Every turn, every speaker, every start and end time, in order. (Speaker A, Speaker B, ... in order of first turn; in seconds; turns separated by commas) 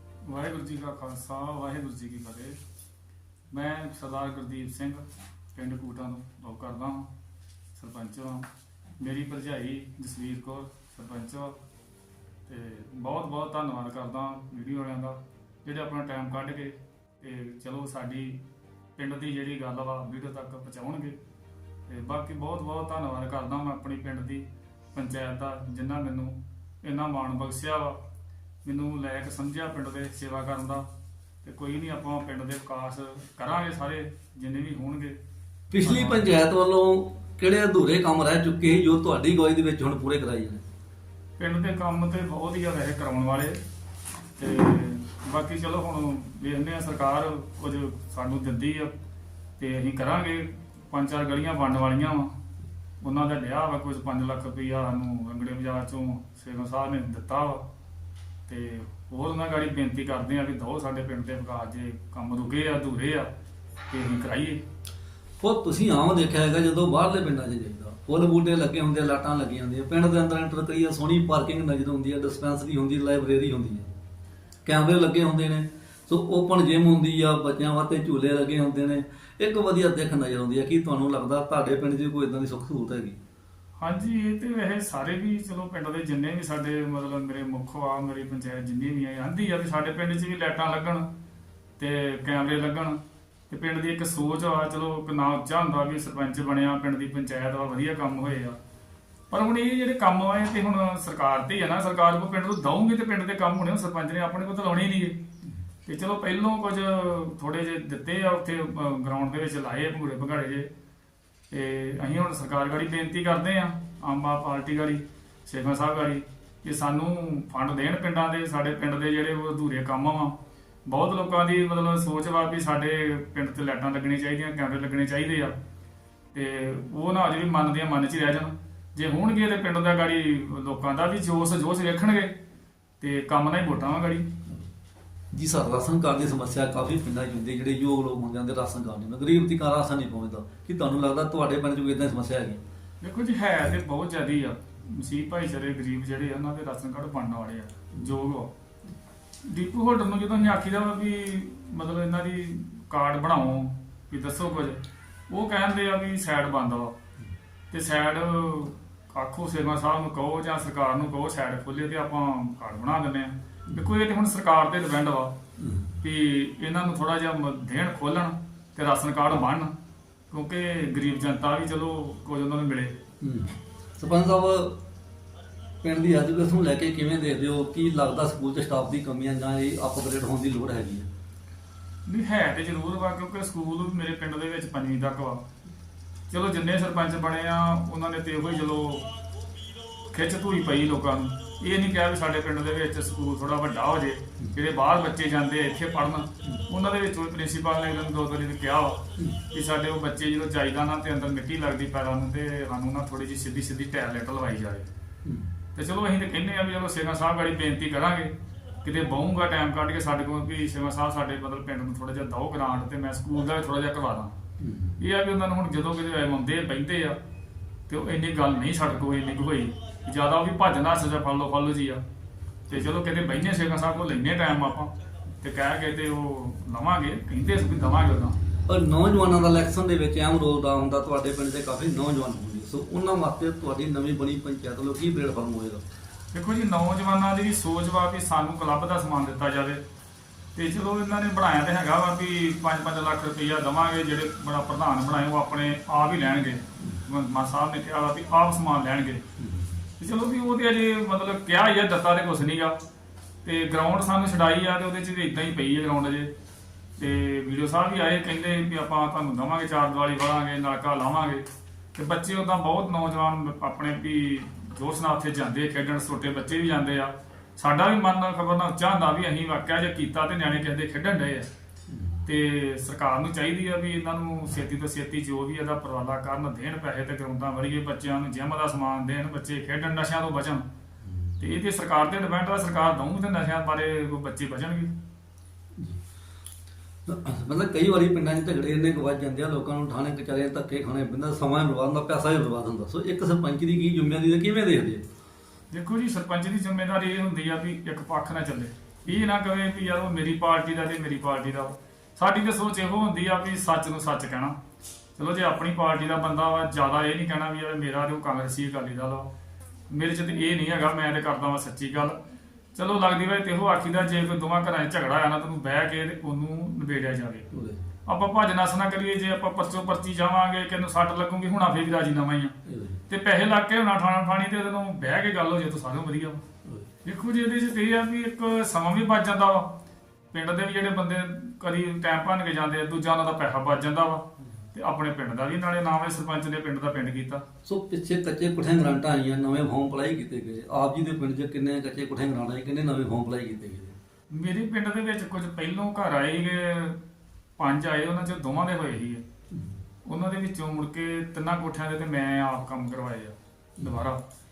Speaker A: 0.2-2.6, Speaker A: 3.5-7.1, Speaker A: 7.8-8.5, Speaker A: 9.0-11.6, Speaker A: 12.5-18.4, Speaker A: 18.9-21.2, Speaker A: 21.9-28.0, Speaker A: 28.6-30.9, Speaker A: 31.4-35.2, Speaker B: 35.7-40.6, Speaker A: 35.8-36.2, Speaker A: 41.4-43.6, Speaker A: 44.4-48.9, Speaker A: 49.6-52.3, Speaker A: 53.0-57.6, Speaker A: 58.5-63.3, Speaker A: 63.9-64.6, Speaker B: 65.4-73.9, Speaker B: 74.6-83.2, Speaker A: 83.8-91.1, Speaker A: 91.8-98.6, Speaker A: 99.3-105.2, Speaker A: 105.8-110.7, Speaker A: 111.5-125.6, Speaker A: 126.3-132.3, Speaker A: 133.0-134.3, Speaker B: 135.3-142.6, Speaker A: 143.0-148.5, Speaker A: 149.4-156.9, Speaker A: 157.7-165.4, Speaker B: 165.6-165.9, Speaker A: 166.0-169.7, Speaker A: 170.3-173.0, Speaker B: 173.2-174.8, Speaker B: 175.8-181.1, Speaker A: 182.1-185.4, Speaker A: 186.3-189.1, Speaker A: 190.1-204.9, Speaker A: 205.7-214.3, Speaker B: 214.6-214.9, Speaker A: 215.0-217.2, Speaker A: 217.9-222.0, Speaker A: 222.7-228.3, Speaker B: 228.7-235.8, Speaker A: 236.3-239.8, Speaker A: 240.5-249.2, Speaker B: 249.4-249.7, Speaker A: 250.0-252.8, Speaker A: 253.4-256.3, Speaker A: 257.0-271.5, Speaker B: 271.9-272.1, Speaker A: 272.2-280.7, Speaker B: 281.1-281.4, Speaker A: 281.4-284.9, Speaker B: 287.1-295.0, Speaker A: 295.7-304.6, Speaker A: 305.1-309.3, Speaker A: 309.9-312.2, Speaker A: 312.7-317.5, Speaker B: 317.5-317.8, Speaker A: 318.1-322.5, Speaker B: 322.6-323.0, Speaker A: 323.1-326.4, Speaker A: 327.0-329.8, Speaker A: 330.3-337.4, Speaker B: 337.6-343.9, Speaker A: 344.3-347.0, Speaker A: 347.6-349.2, Speaker A: 350.0-354.2